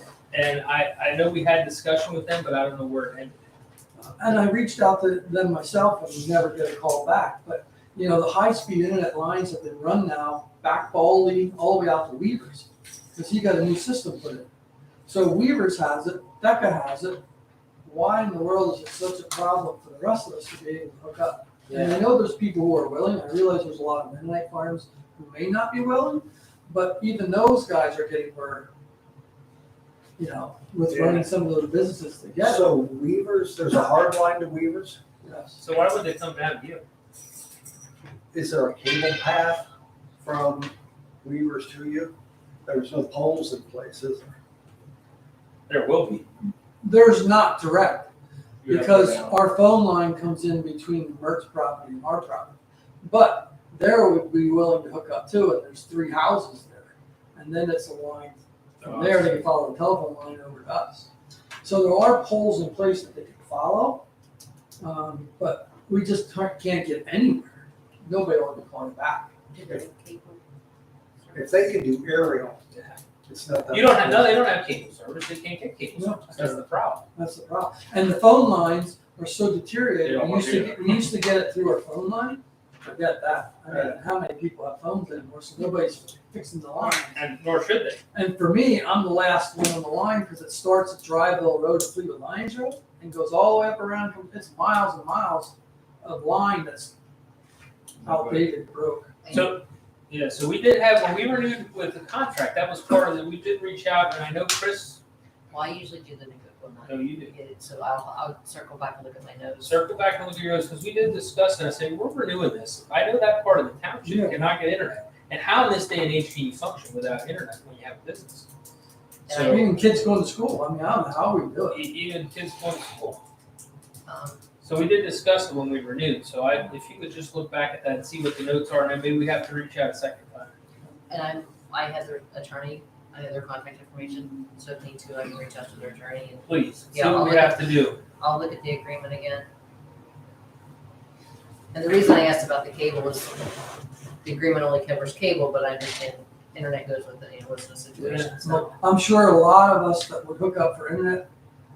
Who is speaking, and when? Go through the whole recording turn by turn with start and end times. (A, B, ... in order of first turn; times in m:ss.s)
0:00.3-0:03.3 A
0:04.0-0:14.5 B
0:15.0-0:17.2 B
0:17.8-0:28.7 B
0:21.7-0:22.1 A
0:30.2-0:32.7 B
0:30.9-0:31.2 C
0:32.4-0:35.0 C
0:35.2-0:35.6 B
0:35.6-0:36.8 A
0:38.3-0:39.7 C
0:40.2-0:42.1 C
0:42.6-0:44.3 C
0:45.7-0:46.3 A
0:46.8-0:48.1 B
0:48.6-0:49.4 A
0:48.7-1:01.1 B
0:58.8-0:59.4 A
1:01.6-1:04.0 B
1:04.8-1:09.3 B
1:09.5-1:10.4 D
1:11.2-1:11.5 D
1:11.3-1:12.6 C
1:12.7-1:13.0 A
1:13.3-1:14.4 C
1:13.7-1:17.0 A
1:16.0-1:16.3 B
1:17.1-1:27.2 B
1:20.0-1:21.0 A
1:23.7-1:24.0 C
1:26.8-1:28.0 A
1:28.1-1:36.9 B
1:38.0-1:38.5 A
1:38.0-1:39.1 B
1:39.2-1:39.6 D
1:39.3-1:45.0 A
1:45.5-1:49.8 D
1:46.9-1:47.3 A
1:49.6-1:58.5 A
1:54.0-1:54.4 B
1:59.3-1:59.8 D
1:59.3-1:59.6 A
1:59.4-2:01.8 B
2:01.7-2:03.2 A
2:04.0-2:04.4 D
2:04.6-2:10.5 A
2:11.1-2:19.5 D
2:16.4-2:18.0 A
2:21.7-2:23.6 D
2:24.2-2:28.8 D
2:28.0-2:31.2 B